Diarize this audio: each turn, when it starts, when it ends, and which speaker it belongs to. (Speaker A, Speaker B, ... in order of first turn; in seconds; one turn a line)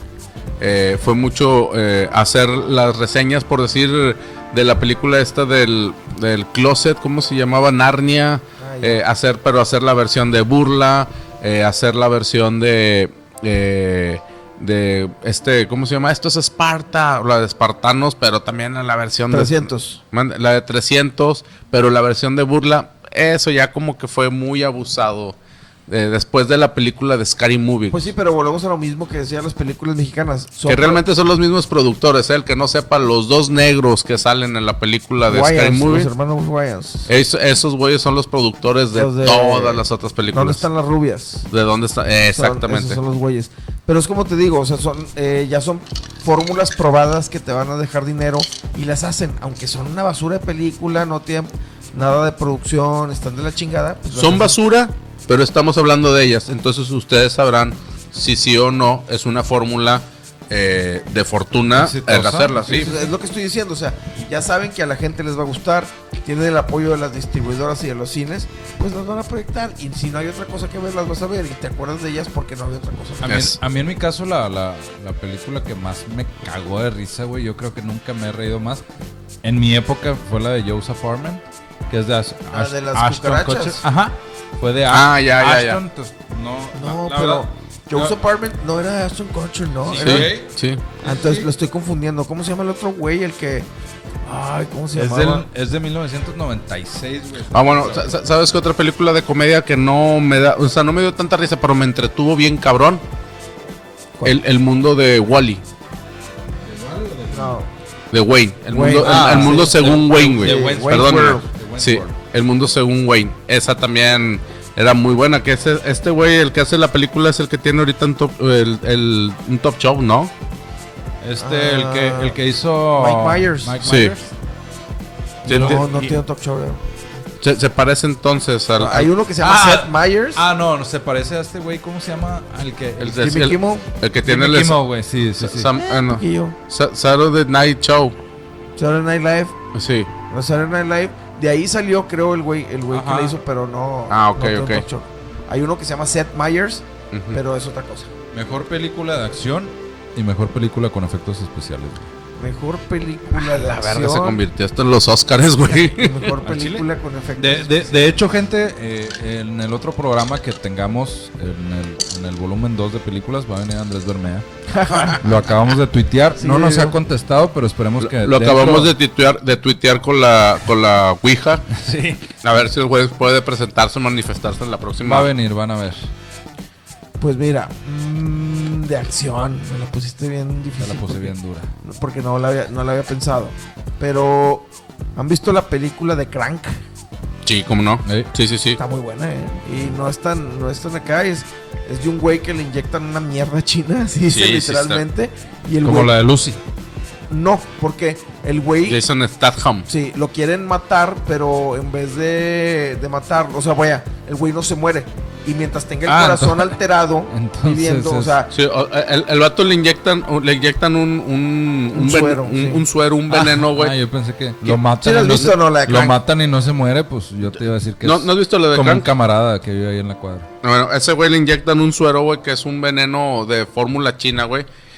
Speaker A: 0.6-25.4
Speaker B: 8.6-9.0
Speaker B: 19.3-20.0
Speaker A: 25.9-28.0
Speaker B: 27.9-31.0
Speaker A: 30.6-36.1
Speaker B: 35.2-37.1
Speaker A: 37.1-40.6
Speaker B: 38.9-41.5
Speaker A: 41.5-43.0
Speaker B: 42.3-54.6
Speaker A: 54.1-62.9
Speaker C: 61.8-63.0
Speaker B: 62.7-73.4
Speaker C: 73.2-78.8
Speaker A: 73.2-73.5
Speaker C: 79.4-88.1
Speaker B: 82.5-83.8
Speaker A: 84.9-85.8
Speaker B: 86.7-90.4
Speaker C: 89.8-90.5
Speaker A: 90.0-90.8
Speaker B: 91.0-93.7
Speaker C: 91.0-91.5
Speaker B: 94.2-95.5
Speaker C: 94.9-98.2
Speaker A: 97.5-103.0
Speaker A: 104.2-105.6
Speaker C: 106.7-107.6
Speaker B: 107.3-107.7
Speaker A: 108.1-120.3
Speaker B: 108.7-111.5
Speaker C: 108.8-112.1
Speaker C: 121.2-124.3
Speaker B: 121.4-122.4
Speaker B: 123.0-123.8
Speaker A: 123.8-124.1
Speaker A: 125.5-125.8
Speaker C: 125.5-126.2
Speaker B: 125.5-126.8
Speaker A: 127.4-129.1
Speaker B: 128.8-130.4
Speaker C: 129.4-133.3
Speaker A: 133.0-134.8
Speaker B: 133.1-133.8
Speaker C: 134.2-135.7
Speaker A: 135.4-138.2
Speaker B: 135.8-136.6
Speaker B: 138.8-139.6
Speaker A: 139.7-140.1
Speaker B: 140.3-148.1
Speaker C: 142.9-143.4
Speaker A: 144.1-144.8
Speaker A: 147.1-147.4
Speaker C: 148.3-152.0
Speaker B: 152.4-154.4
Speaker A: 153.3-156.3
Speaker B: 155.6-158.2
Speaker C: 156.4-156.8
Speaker C: 157.4-164.5
Speaker B: 164.7-165.3
Speaker C: 165.2-168.9
Speaker B: 166.4-167.0
Speaker A: 168.0-171.7
Speaker C: 171.7-172.3
Speaker A: 172.4-175.3
Speaker C: 175.0-176.1
Speaker B: 177.2-186.8
Speaker C: 180.8-181.7
Speaker A: 187.4-188.8
Speaker B: 188.8-196.1
Speaker A: 194.3-195.0
Speaker C: 195.8-196.6
Speaker B: 197.3-199.0
Speaker A: 198.8-199.9
Speaker B: 199.9-208.5
Speaker C: 206.1-206.8
Speaker C: 207.3-208.3
Speaker A: 208.5-213.9
Speaker B: 211.9-212.8
Speaker C: 213.3-220.5
Speaker B: 214.9-216.2
Speaker A: 218.0-219.1
Speaker A: 220.6-224.7